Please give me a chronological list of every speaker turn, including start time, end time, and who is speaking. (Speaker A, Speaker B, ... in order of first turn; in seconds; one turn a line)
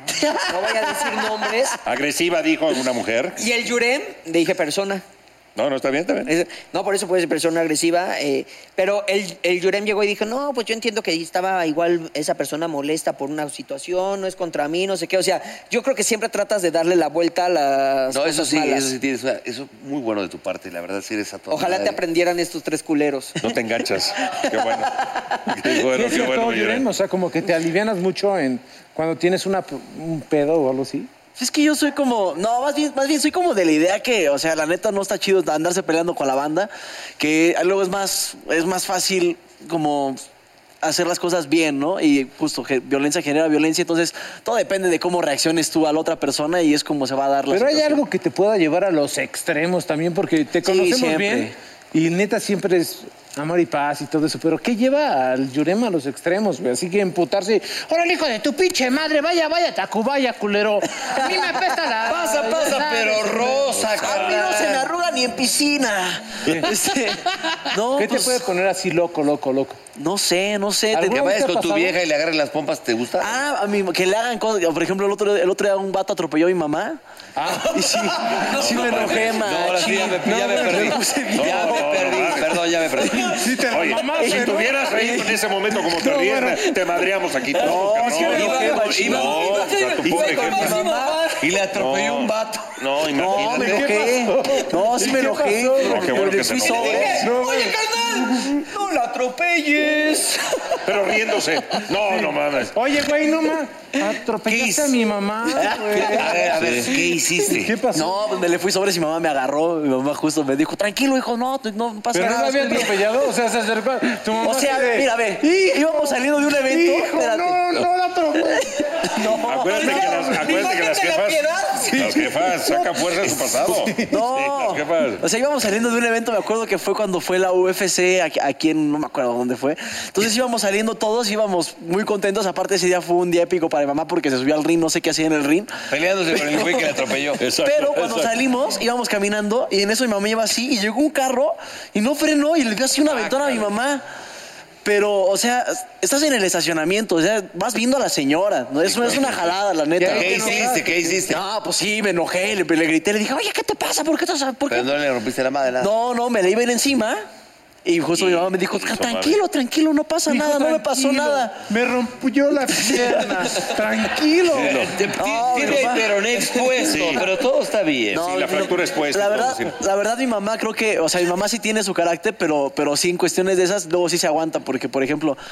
Speaker A: 0.5-1.8
Speaker B: 1.8-3.4
Speaker A: 3.4-5.0
Speaker B: 5.6-6.3
Speaker A: 6.3-18.9
Speaker C: 18.1-22.0
Speaker A: 21.5-23.4
Speaker B: 23.4-26.9
Speaker D: 25.7-31.1
Speaker E: 31.4-40.2
Speaker E: 40.8-48.0
Speaker D: 47.5-63.8
Speaker E: 50.6-51.5
Speaker C: 62.1-64.9
Speaker E: 64.0-68.5
Speaker D: 66.5-66.7
Speaker D: 67.9-69.8
Speaker E: 70.0-71.2
Speaker D: 70.9-72.0
Speaker C: 71.0-73.4
Speaker E: 73.2-77.0
Speaker D: 77.4-78.2
Speaker E: 77.6-82.4
Speaker C: 78.5-83.5
Speaker B: 78.7-79.3
Speaker D: 80.4-80.9
Speaker B: 81.3-82.6
Speaker E: 83.0-83.5
Speaker D: 83.2-84.9
Speaker B: 83.7-90.9
Speaker E: 84.0-85.4
Speaker D: 85.9-86.7
Speaker E: 87.5-89.7
Speaker C: 88.0-93.6
Speaker D: 88.2-89.0
Speaker A: 89.3-91.5
Speaker B: 91.7-94.1
Speaker E: 93.1-97.3
Speaker D: 93.5-98.6
Speaker B: 95.8-97.2
Speaker A: 96.6-100.9
Speaker B: 100.8-102.8
Speaker D: 102.1-108.2
Speaker E: 105.5-107.0
Speaker C: 106.0-107.8
Speaker B: 106.5-107.0
Speaker E: 107.9-113.1
Speaker D: 112.1-119.0
Speaker E: 114.4-117.6
Speaker E: 118.5-120.1
Speaker B: 119.4-121.4
Speaker A: 119.6-122.0
Speaker D: 119.9-120.2
Speaker D: 121.9-124.3
Speaker B: 121.9-125.2
Speaker E: 124.1-137.0
Speaker C: 135.9-137.4
Speaker B: 137.4-138.4
Speaker E: 137.5-144.1
Speaker C: 143.1-143.7
Speaker E: 144.8-150.7
Speaker B: 148.9-149.6
Speaker C: 150.0-151.4
Speaker D: 150.0-151.2
Speaker E: 151.2-154.9
Speaker C: 154.7-155.9
Speaker E: 155.8-157.2
Speaker E: 157.8-161.7
Speaker C: 158.2-158.5
Speaker B: 158.7-159.4
Speaker D: 160.3-165.0
Speaker E: 162.8-163.6
Speaker C: 164.5-168.4
Speaker E: 165.2-167.3
Speaker B: 166.8-167.3
Speaker E: 168.1-175.4
Speaker B: 168.2-169.8